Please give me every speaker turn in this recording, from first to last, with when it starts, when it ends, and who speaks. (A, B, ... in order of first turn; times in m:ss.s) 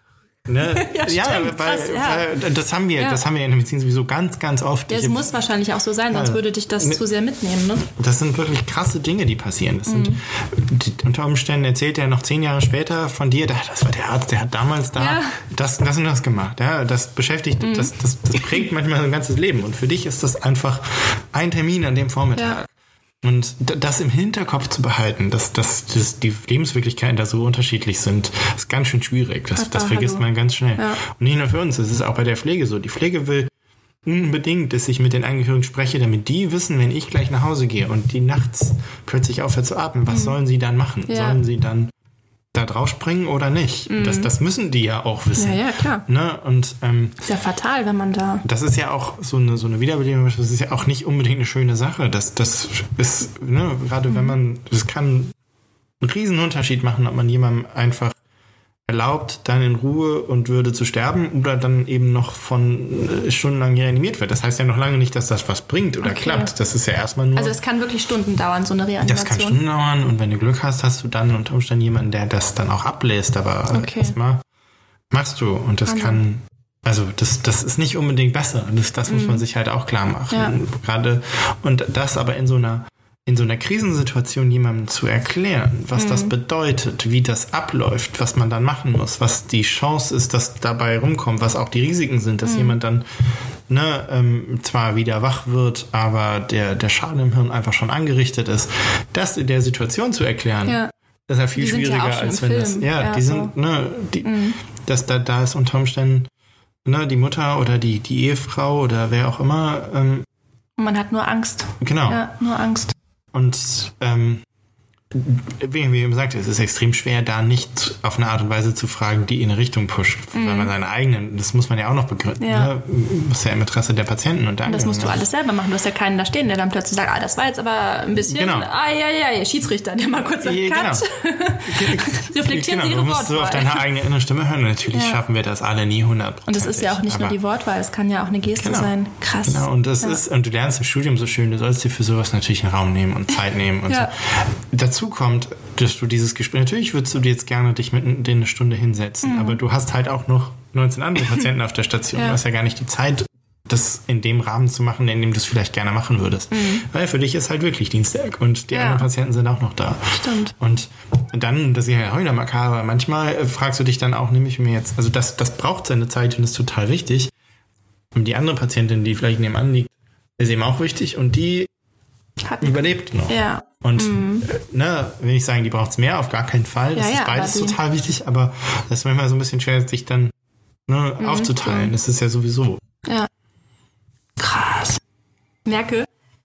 0:00.5-0:05.3 A
0:00.7-0:02.2 B
0:04.9-0:07.9 B
0:06.1-0:07.0 A
0:07.9-0:22.7 A
0:09.9-0:10.2 B
0:15.0-0:15.4 B
0:17.6-0:17.9 B
0:23.2-0:33.5 A
0:29.6-0:30.2 B
0:34.0-0:41.9 A
0:40.1-0:40.4 B
0:41.1-0:41.4 B
0:42.5-0:47.2 A
0:43.9-0:44.3 B
0:45.4-0:46.0 B
0:47.2-0:48.4 B
0:48.4-0:55.3 A
0:54.1-0:54.4 B
0:56.0-0:58.2 A
0:58.9-1:07.6 A
1:06.0-1:06.5 B
1:07.4-1:09.6 B
1:09.0-1:14.4 A
1:13.7-1:14.2 B
1:15.1-1:33.1 A
1:15.9-1:16.2 B
1:19.1-1:19.4 B
1:26.0-1:26.3 B
1:32.4-1:32.8 B
1:33.7-1:46.3 A
1:40.7-1:40.9 B
1:41.6-1:43.5 B
1:44.2-1:44.6 B
1:46.8-1:50.3 A
1:50.8-1:52.9 B
1:51.8-1:52.3 A
1:53.3-1:54.4 A
1:55.1-2:05.2 A
2:00.3-2:00.7 B
2:02.4-2:02.7 B
2:04.7-2:13.8 B
2:08.2-2:08.7 A
2:10.4-2:11.1 A
2:11.6-2:17.4 A
2:14.9-2:15.2 B
2:16.5-2:20.2 B
2:18.6-2:18.9 A
2:19.4-2:47.3 A
2:29.2-2:29.6 B
2:36.5-2:36.8 B
2:38.7-2:39.1 B
2:40.1-2:40.5 B
2:48.1-2:51.7 A
2:52.4-2:54.5 B
2:52.6-3:00.3 A
2:57.0-2:57.8 B
3:00.9-3:02.8 A
3:01.2-3:01.9 B
3:04.4-3:05.0 B
3:05.7-3:06.1 B